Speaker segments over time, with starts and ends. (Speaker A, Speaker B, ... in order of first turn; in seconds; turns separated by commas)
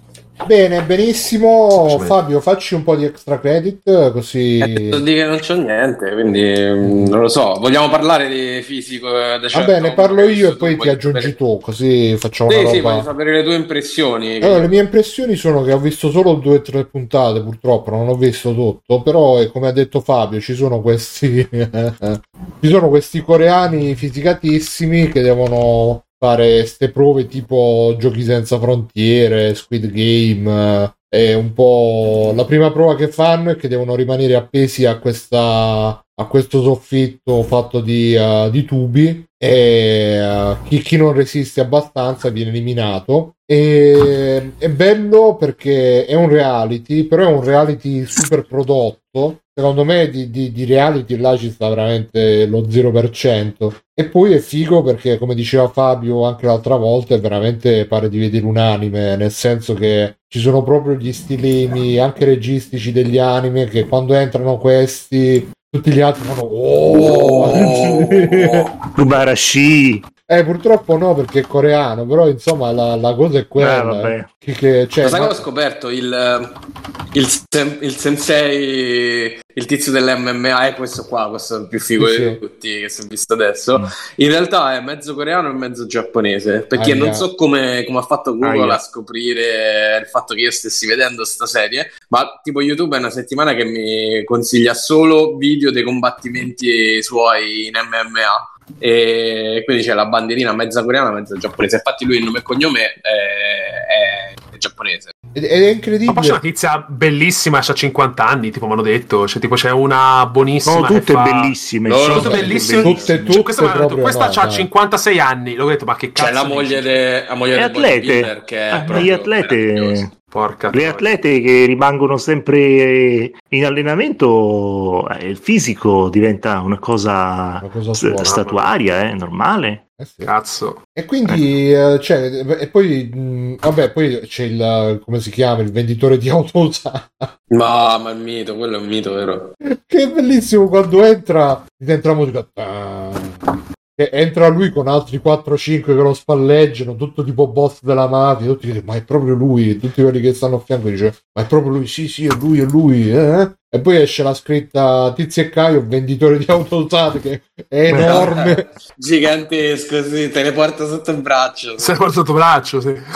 Speaker A: 0.4-5.0, Speaker B: 1.7-2.2, Speaker C: 4.6-11.3, Speaker A: 6.8-7.2, Speaker A: 9.5-13.1, Speaker C: 12.5-14.7, Speaker A: 14.4-68.6, Speaker C: 66.9-68.7, Speaker D: 68.9-70.0, Speaker A: 70.3-75.4, Speaker D: 73.6-74.3, Speaker C: 75.0-76.5, Speaker C: 77.1-105.1, Speaker A: 82.0-82.4, Speaker A: 86.7-87.3, Speaker D: 88.4-88.8, Speaker A: 105.3-106.4, Speaker B: 106.1-111.5, Speaker D: 110.6-113.4, Speaker C: 111.8-112.9, Speaker B: 112.1-116.9, Speaker A: 112.8-114.7, Speaker C: 116.2-120.1, Speaker D: 117.5-120.1, Speaker B: 120.3-121.1, Speaker D: 120.7-129.8, Speaker A: 127.6-128.4, Speaker B: 128.2-128.7, Speaker A: 130.0-130.3, Speaker B: 130.2-130.8, Speaker A: 130.9-137.3, Speaker C: 137.5-139.5, Speaker A: 139.6-158.6, Speaker D: 157.9-158.2, Speaker C: 157.9-162.0, Speaker B: 161.8-163.0